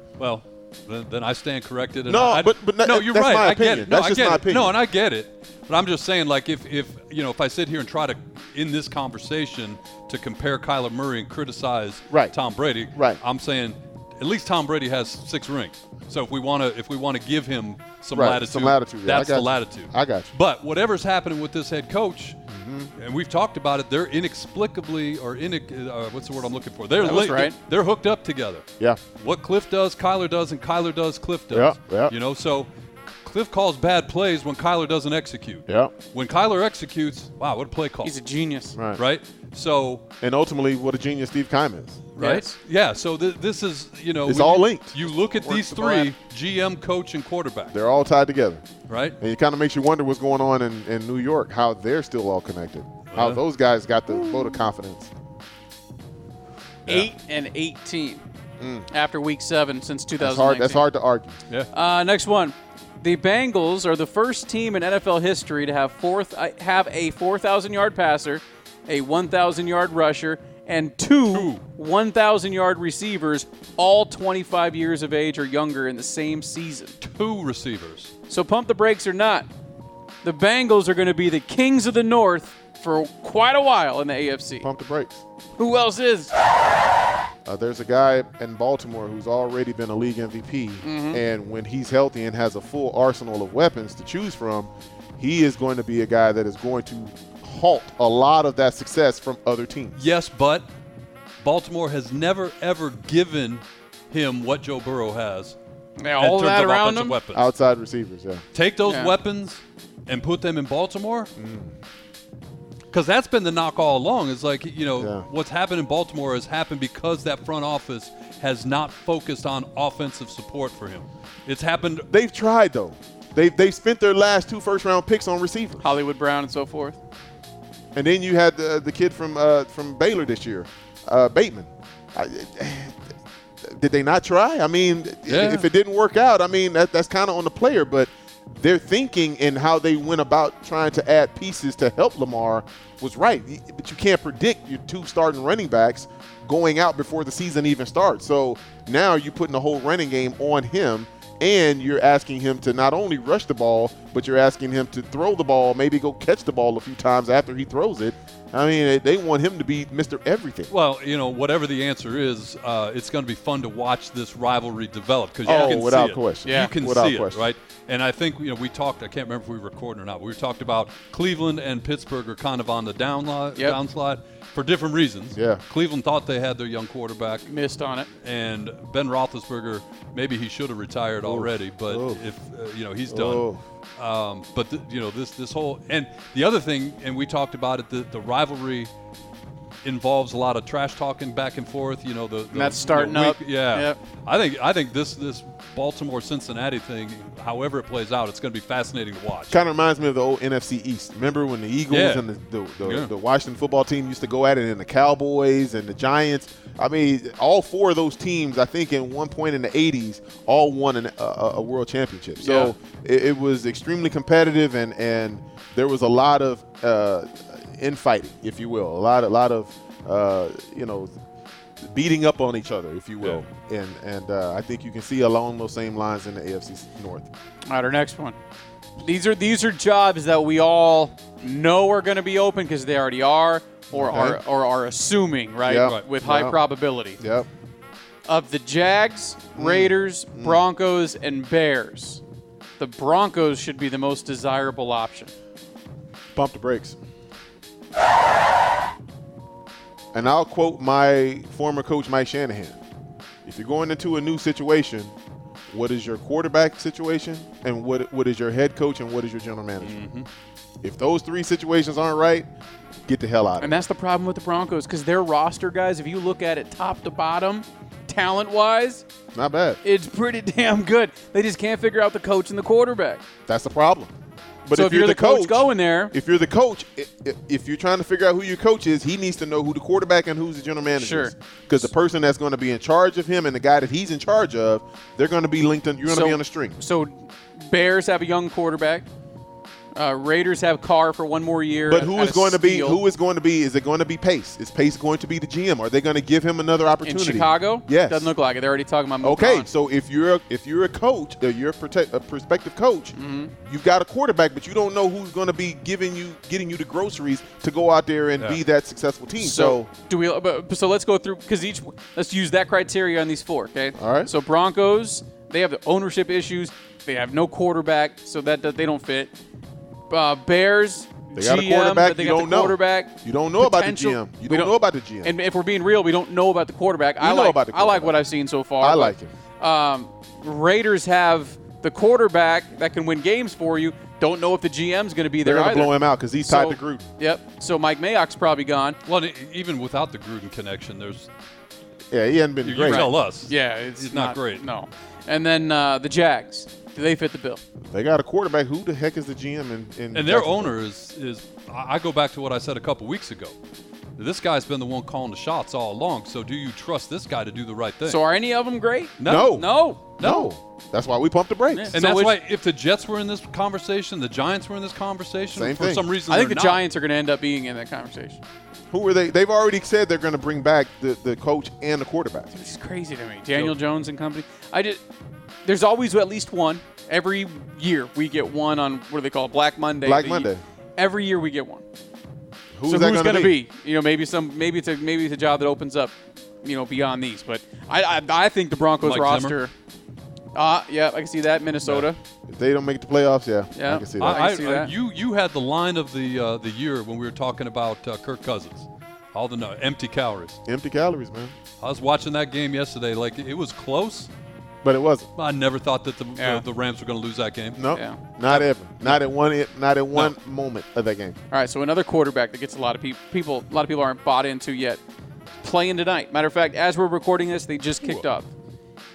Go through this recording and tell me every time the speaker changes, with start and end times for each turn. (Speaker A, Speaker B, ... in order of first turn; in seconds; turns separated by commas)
Speaker A: 0.2-22.4, Speaker B: 2.1-4.8, Speaker B: 12.1-12.3, Speaker B: 12.9-13.2, Speaker B: 18.1-20.3, Speaker B: 22.5-22.9, Speaker A: 22.9-28.7, Speaker C: 27.0-27.6, Speaker A: 29.2-32.7, Speaker B: 31.5-32.1, Speaker A: 33.2-38.1, Speaker B: 35.7-35.9, Speaker C: 38.0-38.8, Speaker B: 38.8-39.0, Speaker A: 39.0-40.0, Speaker B: 40.2-42.0, Speaker A: 42.2-47.8, Speaker C: 42.2-42.5, Speaker B: 44.3-45.1, Speaker C: 45.5-46.1, Speaker B: 47.7-48.6, Speaker A: 48.9-49.2, Speaker B: 49.2-55.1, Speaker A: 53.1-53.4, Speaker C: 54.1-54.7, Speaker C: 56.9-58.2, Speaker B: 58.6-58.9, Speaker C: 58.9-60.8, Speaker B: 60.2-61.4, Speaker C: 61.7-77.0, Speaker A: 71.3-71.6, Speaker A: 77.0-78.1, Speaker C: 78.3-79.5, Speaker C: 80.2-84.7, Speaker B: 84.6-85.2, Speaker C: 85.6-86.3, Speaker B: 87.5-100.0, Speaker C: 90.8-91.2, Speaker A: 100.0-100.7, Speaker A: 101.4-105.6, Speaker C: 106.0-107.2, Speaker A: 106.2-107.5, Speaker B: 107.3-108.4, Speaker A: 108.5-111.3, Speaker C: 108.9-109.1, Speaker B: 111.4-111.7, Speaker A: 112.9-122.1, Speaker B: 115.0-115.3, Speaker B: 122.1-125.8, Speaker C: 125.8-127.0, Speaker B: 128.0-133.0, Speaker B: 133.6-160.7, Speaker A: 135.3-135.7, Speaker A: 160.7-177.5, Speaker C: 165.5-165.9, Speaker B: 165.5-167.5, Speaker C: 166.5-166.7, Speaker B: 175.3-175.6, Speaker C: 177.5-178.1, Speaker A: 178.2-183.5, Speaker B: 181.2-182.2, Speaker B: 183.1-183.6, Speaker A: 184.0-188.9, Speaker A: 189.8-199.6, Speaker C: 192.5-194.0, Speaker B: 199.5-221.1, Speaker A: 201.9-202.2, Speaker A: 202.8-203.1, Speaker C: 212.4-212.7, Speaker B: 221.8-227.3, Speaker C: 227.7-228.4, Speaker C: 229.0-237.2, Speaker B: 233.9-234.4, Speaker B: 235.6-236.6, Speaker B: 237.2-237.5, Speaker C: 238.3-242.2, Speaker B: 239.6-240.6, Speaker C: 242.8-245.3, Speaker B: 246.3-247.0, Speaker B: 250.1-252.8, Speaker B: 253.4-255.1, Speaker B: 255.7-260.0, Speaker A: 259.8-260.3, Speaker B: 260.8-262.5, Speaker B: 263.1-263.9, Speaker C: 263.6-269.1, Speaker B: 269.4-269.8, Speaker C: 269.8-273.2, Speaker B: 273.5-274.1, Speaker B: 274.7-286.8, Speaker C: 274.7-276.1, Speaker C: 281.0-281.8, Speaker C: 286.1-289.1, Speaker C: 289.9-293.0, Speaker B: 291.9-298.3, Speaker C: 297.0-299.7, Speaker B: 299.2-309.9, Speaker C: 303.1-303.5, Speaker C: 309.4-319.3, Speaker B: 314.0-314.3, Speaker C: 320.1-339.0, Speaker B: 321.4-325.4, Speaker B: 327.2-328.2, Speaker B: 328.8-329.3, Speaker B: 335.4-337.1, Speaker A: 339.1-341.3, Speaker B: 342.1-343.1, Speaker A: 342.6-344.6, Speaker C: 342.8-347.6, Speaker B: 347.8-350.8, Speaker A: 350.1-353.6, Speaker A: 354.2-358.2, Speaker C: 358.1-360.0, Speaker A: 359.2-360.5, Speaker B: 359.2-361.9, Speaker C: 361.7-362.4, Speaker A: 361.9-366.8, Speaker B: 365.5-366.1, Speaker C: 366.3-368.4, Speaker B: 368.9-372.7, Speaker C: 372.6-375.0, Speaker C: 375.6-381.8, Speaker B: 380.0-380.6, Speaker B: 382.8-383.6, Speaker C: 382.9-389.7, Speaker A: 389.0-389.6, Speaker C: 390.5-392.2, Speaker B: 392.5-394.4, Speaker C: 393.8-394.9, Speaker A: 394.2-400.6, Speaker B: 400.7-401.5, Speaker A: 401.8-404.3, Speaker B: 404.8-405.3, Speaker A: 405.4-407.8, Speaker C: 406.4-406.6, Speaker B: 407.8-411.4, Speaker C: 407.9-408.2, Speaker A: 408.5-409.2, Speaker C: 411.5-415.0, Speaker C: 415.6-418.5